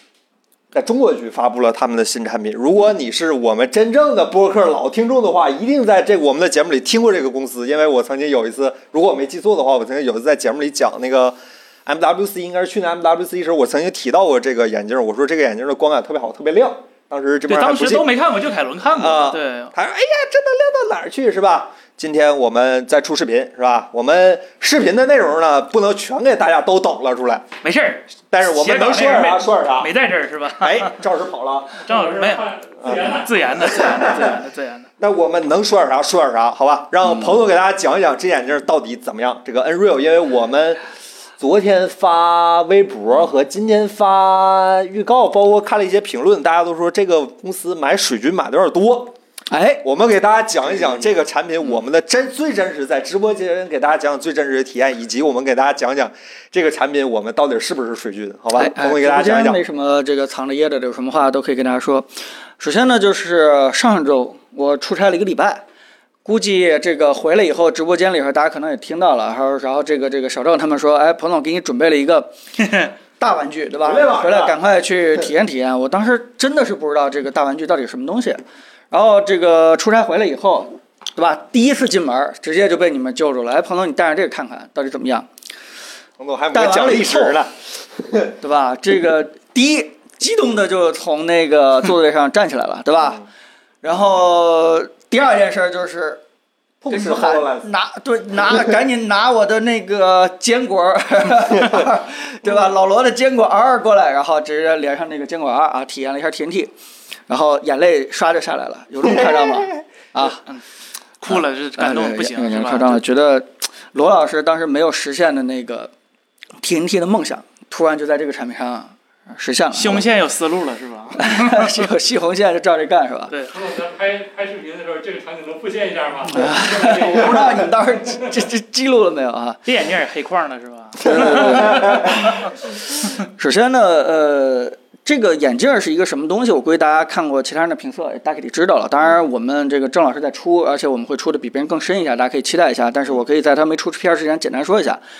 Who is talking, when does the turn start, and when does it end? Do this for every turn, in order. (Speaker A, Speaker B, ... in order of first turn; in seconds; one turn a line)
Speaker A: 0.7-18.1
Speaker B: 17.5-19.7
Speaker A: 18.8-27.4
Speaker B: 27.6-31.0
Speaker A: 28.3-29.9
Speaker A: 30.6-31.8
Speaker B: 31.8-32.5
Speaker C: 31.9-33.5
Speaker A: 32.8-34.4
Speaker B: 33.0-34.9
Speaker A: 35.0-40.8
Speaker A: 41.4-49.1
Speaker D: 49.5-49.8
Speaker A: 49.8-59.6
Speaker D: 58.5-65.6
Speaker D: 66.2-85.3
Speaker A: 73.8-74.6
Speaker A: 86.2-88.3
Speaker D: 86.5-87.3
Speaker D: 88.4-93.2
Speaker D: 93.8-96.2
Speaker A: 96.8-97.7
Speaker D: 96.9-106.7
Speaker D: 107.3-110.4
Speaker B: 110.2-110.6
Speaker B: 111.2-113.0
Speaker D: 111.3-115.9
Speaker D: 116.6-120.0
Speaker B: 119.7-121.9
Speaker D: 121.2-123.3
Speaker C: 123.5-128.3
Speaker D: 126.3-129.6
Speaker B: 129.7-132.5
Speaker D: 131.0-132.4
Speaker A: 131.0-132.1
Speaker D: 133.2-145.0